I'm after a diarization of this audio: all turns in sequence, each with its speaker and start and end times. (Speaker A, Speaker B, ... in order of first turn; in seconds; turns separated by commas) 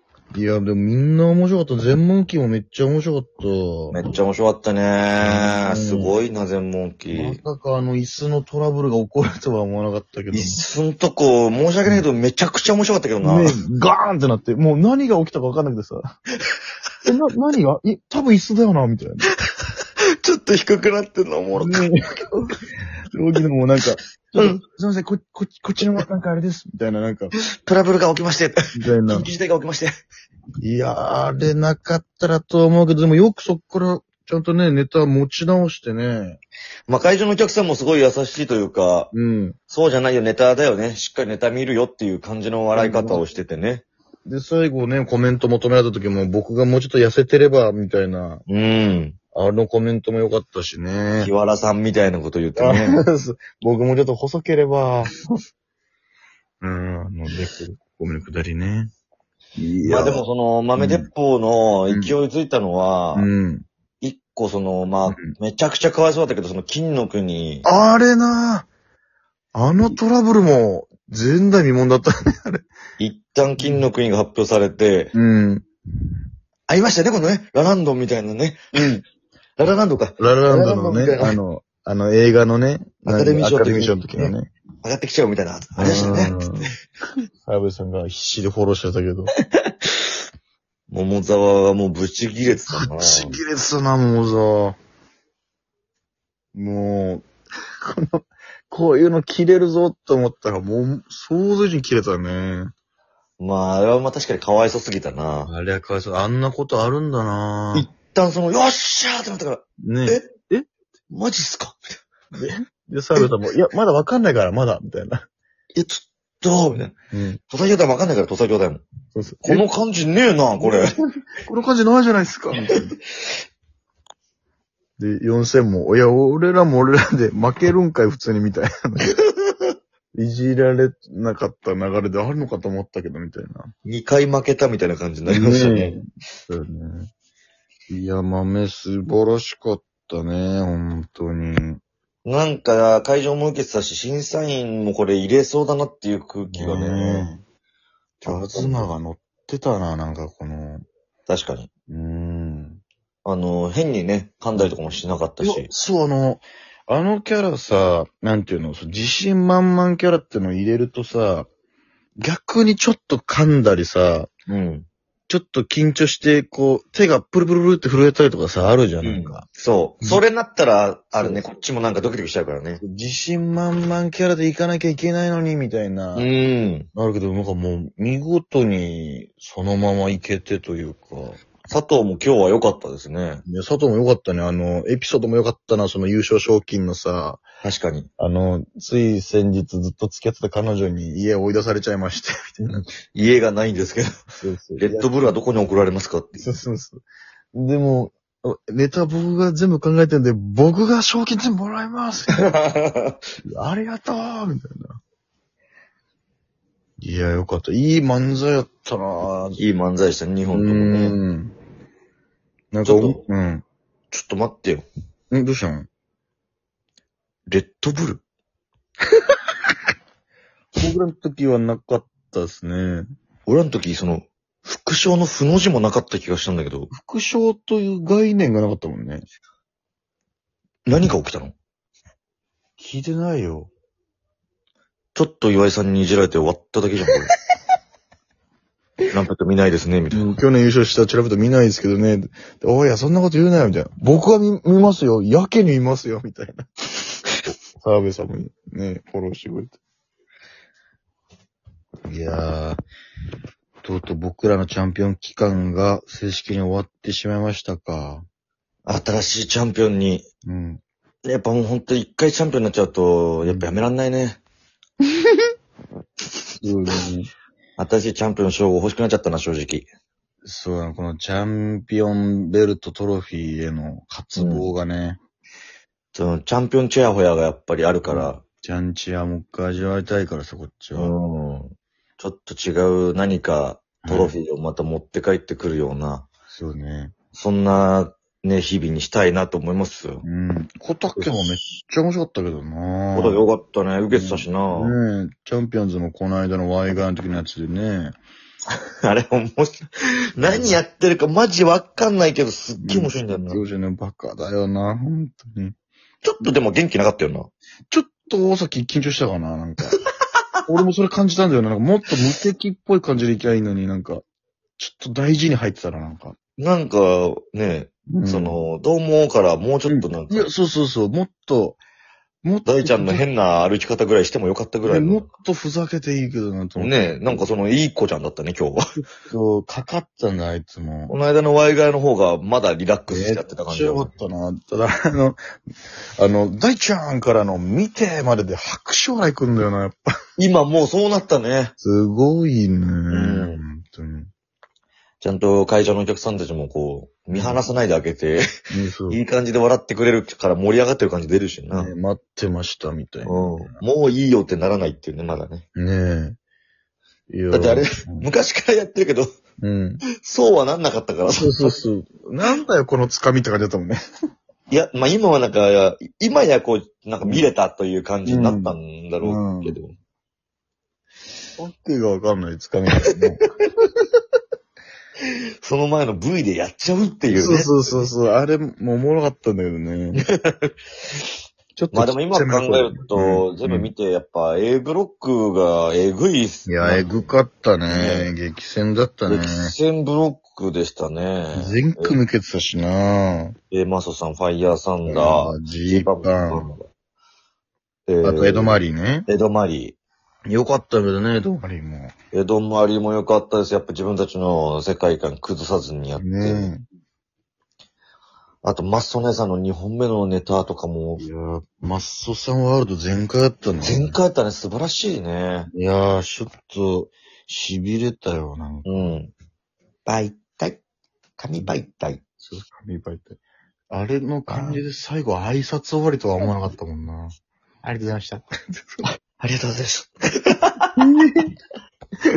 Speaker A: 0.3-4.0, Speaker B: 3.9-7.4, Speaker A: 5.2-6.1, Speaker A: 7.1-10.6, Speaker B: 10.3-13.6, Speaker A: 13.2-16.0, Speaker A: 17.0-19.3, Speaker B: 20.2-21.9, Speaker A: 21.5-22.5, Speaker A: 23.1-27.3, Speaker B: 24.4-24.6, Speaker B: 27.4-29.9, Speaker A: 28.7-29.3, Speaker A: 30.6-36.4, Speaker B: 36.9-39.1, Speaker A: 39.1-39.5, Speaker B: 39.7-43.8, Speaker A: 42.7-43.2, Speaker A: 44.2-48.4, Speaker B: 48.5-49.1, Speaker A: 49.3-51.3, Speaker B: 51.2-53.0, Speaker A: 52.5-55.1, Speaker A: 56.6-58.9, Speaker A: 59.6-60.2, Speaker B: 59.9-63.3, Speaker A: 60.8-61.1, Speaker A: 63.1-63.6, Speaker B: 64.0-67.7, Speaker A: 65.1-65.3, Speaker A: 67.6-68.7, Speaker A: 69.5-72.6, Speaker B: 73.0-75.1, Speaker A: 75.1-76.2, Speaker B: 76.7-79.0, Speaker B: 79.6-81.4, Speaker A: 80.2-84.5, Speaker B: 83.0-86.4, Speaker A: 85.8-86.7, Speaker A: 87.4-89.3, Speaker B: 90.9-93.4, Speaker A: 92.6-94.8, Speaker A: 96.5-97.3, Speaker A: 97.8-102.7, Speaker B: 103.4-105.5, Speaker A: 105.5-107.9, Speaker B: 107.7-110.2, Speaker A: 109.8-110.7, Speaker B: 111.1-111.9, Speaker A: 112.3-115.2, Speaker B: 115.7-116.9, Speaker A: 117.1-117.4, Speaker B: 117.5-118.8, Speaker A: 119.1-119.7, Speaker B: 119.4-120.9, Speaker A: 120.6-123.0, Speaker A: 125.0-129.1, Speaker B: 129.1-129.5, Speaker A: 130.1-133.7, Speaker B: 133.8-136.0, Speaker A: 135.2-137.1, Speaker A: 137.9-141.8, Speaker B: 142.2-147.3, Speaker A: 146.5-147.4, Speaker A: 148.2-150.8, Speaker B: 148.2-148.9, Speaker B: 151.3-151.7, Speaker A: 151.9-152.8, Speaker B: 153.2-155.7, Speaker A: 155.4-161.5, Speaker A: 162.2-164.3, Speaker B: 164.5-164.8, Speaker A: 165.3-169.4, Speaker B: 169.0-172.8, Speaker A: 172.8-176.3, Speaker B: 176.1-176.9, Speaker A: 176.9-181.4, Speaker B: 181.7-183.4, Speaker A: 183.4-187.4, Speaker B: 187.6-188.1, Speaker A: 188.2-192.8, Speaker B: 193.1-194.1, Speaker A: 194.4-195.1, Speaker B: 194.8-196.5, Speaker A: 196.3-197.0, Speaker A: 197.5-202.5, Speaker B: 202.3-203.2, Speaker A: 203.4-205.0, Speaker A: 207.0-209.6, Speaker B: 209.6-211.2, Speaker A: 210.5-211.5, Speaker A: 212.7-213.6, Speaker B: 212.8-213.2, Speaker B: 214.1-214.9, Speaker A: 215.3-215.9, Speaker B: 217.5-218.2, Speaker A: 220.8-223.1, Speaker B: 223.4-226.9, Speaker A: 226.9-229.2, Speaker B: 230.8-231.5, Speaker A: 232.8-233.7, Speaker B: 235.1-237.3, Speaker B: 239.1-240.3, Speaker A: 240.1-246.6, Speaker A: 247.7-249.8, Speaker A: 252.1-252.8, Speaker A: 253.8-258.2, Speaker B: 258.9-260.2, Speaker A: 260.4-260.8, Speaker B: 261.2-264.4, Speaker A: 263.4-263.9, Speaker A: 266.6-267.3, Speaker B: 267.8-269.9, Speaker A: 270.4-275.2, Speaker B: 274.4-274.7, Speaker B: 276.1-278.4, Speaker A: 278.1-281.1, Speaker B: 280.9-286.3, Speaker A: 284.0-284.4, Speaker A: 286.5-287.1, Speaker B: 287.3-290.2, Speaker A: 290.2-293.4, Speaker B: 291.1-291.6, Speaker B: 293.1-294.9, Speaker A: 294.1-298.1, Speaker B: 298.7-303.6, Speaker A: 300.4-300.8, Speaker A: 302.8-305.7, Speaker B: 306.2-307.5, Speaker A: 307.9-310.0, Speaker A: 310.7-314.2, Speaker A: 314.8-316.4, Speaker B: 316.6-320.5, Speaker A: 318.1-318.6, Speaker A: 319.9-321.8, Speaker A: 322.4-323.2, Speaker B: 322.6-325.3, Speaker A: 324.8-327.5, Speaker B: 326.8-328.8, Speaker A: 329.3-331.1, Speaker B: 331.1-334.1, Speaker A: 333.1-335.4, Speaker A: 336.2-340.1, Speaker B: 340.4-341.7, Speaker A: 341.8-344.3, Speaker B: 343.1-343.6, Speaker B: 345.2-348.4, Speaker A: 347.3-347.6, Speaker A: 348.7-349.2, Speaker B: 349.1-351.9, Speaker A: 351.7-353.8, Speaker B: 353.2-355.6, Speaker A: 355.8-356.4, Speaker A: 357.3-358.3, Speaker B: 357.5-359.3, Speaker A: 359.6-360.0, Speaker B: 360.2-361.8, Speaker A: 361.4-364.0, Speaker B: 364.7-369.9, Speaker A: 368.2-369.8, Speaker A: 371.6-373.4, Speaker B: 375.2-378.1, Speaker A: 377.3-380.2, Speaker B: 380.2-380.7, Speaker A: 381.8-383.9, Speaker B: 381.9-387.1, Speaker A: 386.6-389.7, Speaker B: 387.9-388.3, Speaker B: 389.3-392.2, Speaker A: 391.5-393.6, Speaker B: 393.7-396.9, Speaker A: 395.0-396.7, Speaker B: 398.1-400.0, Speaker A: 398.2-399.3, Speaker A: 400.5-402.1, Speaker B: 402.3-406.7, Speaker A: 406.2-406.8, Speaker B: 408.6-411.2, Speaker A: 411.2-414.2, Speaker B: 413.8-415.7, Speaker A: 415.7-419.2, Speaker B: 418.8-419.3, Speaker B: 420.1-420.8, Speaker B: 421.4-422.2, Speaker A: 422.4-423.4, Speaker A: 423.9-427.3, Speaker B: 424.5-424.8, Speaker B: 427.8-428.4, Speaker A: 428.7-429.0, Speaker B: 429.4-430.9, Speaker A: 431.0-431.5